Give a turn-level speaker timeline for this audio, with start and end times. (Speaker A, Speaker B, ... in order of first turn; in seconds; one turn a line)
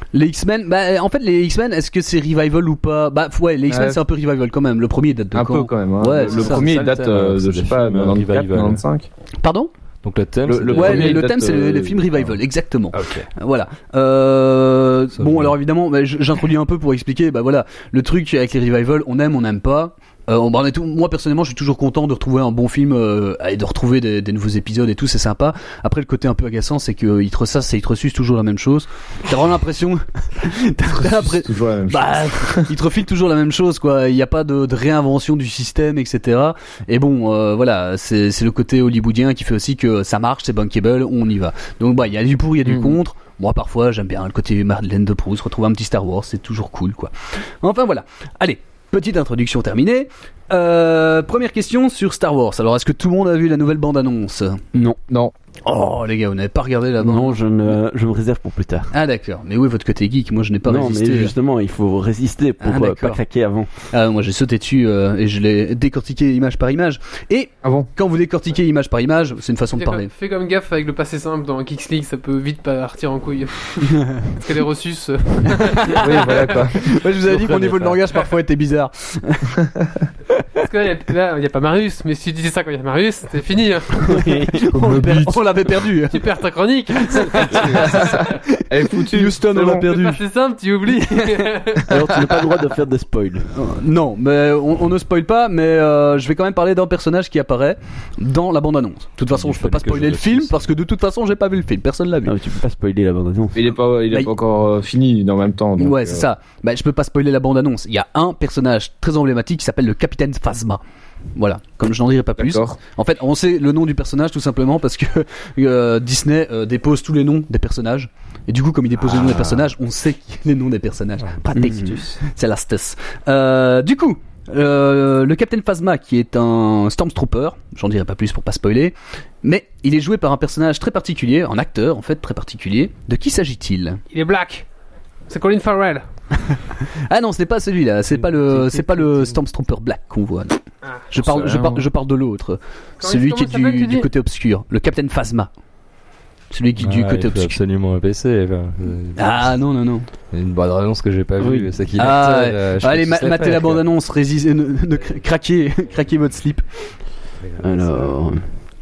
Speaker A: 0.1-7.0
Speaker B: 3.7-4.0
Speaker B: 5.3-9.1
Speaker C: 6.4-8.8
Speaker A: 9.4-9.7
Speaker C: 10.0-11.2
Speaker B: 10.5-12.0
Speaker D: 10.5-11.2
Speaker A: 10.7-54.6
Speaker C: 12.9-13.3
Speaker C: 15.2-15.5
Speaker B: 30.9-32.7
Speaker B: 42.6-43.0
Speaker A: 55.6-57.4
Speaker D: 57.0-58.9
Speaker A: 58.9-61.3
Speaker D: 60.6-63.7
Speaker A: 62.6-63.2
Speaker A: 63.9-70.1
Speaker B: 67.6-67.9
Speaker E: 69.7-76.4
Speaker A: 75.5-79.6
Speaker B: 75.9-78.0
Speaker E: 80.7-84.0
Speaker D: 84.0-84.6
Speaker A: 84.1-86.3
Speaker B: 84.7-85.4
Speaker E: 86.1-88.2
Speaker A: 87.0-90.2
Speaker B: 87.5-89.9
Speaker E: 89.8-91.9
Speaker A: 91.0-91.4
Speaker D: 91.8-93.5
Speaker A: 93.5-102.3
Speaker C: 99.3-100.7
Speaker D: 102.2-103.6
Speaker B: 103.5-106.2
Speaker A: 105.8-110.8
Speaker A: 111.3-134.0
Speaker B: 112.4-112.8
Speaker D: 121.5-122.0
Speaker E: 134.1-134.7
Speaker E: 135.3-136.0
Speaker A: 137.1-145.5
Speaker C: 138.5-139.3
Speaker B: 141.2-141.8
Speaker E: 143.0-144.1
Speaker A: 146.5-147.6
Speaker C: 146.8-149.6
Speaker A: 149.2-150.1
Speaker C: 150.3-153.8
Speaker D: 151.4-151.7
Speaker A: 151.9-156.6
Speaker C: 157.4-158.2
Speaker D: 157.6-158.4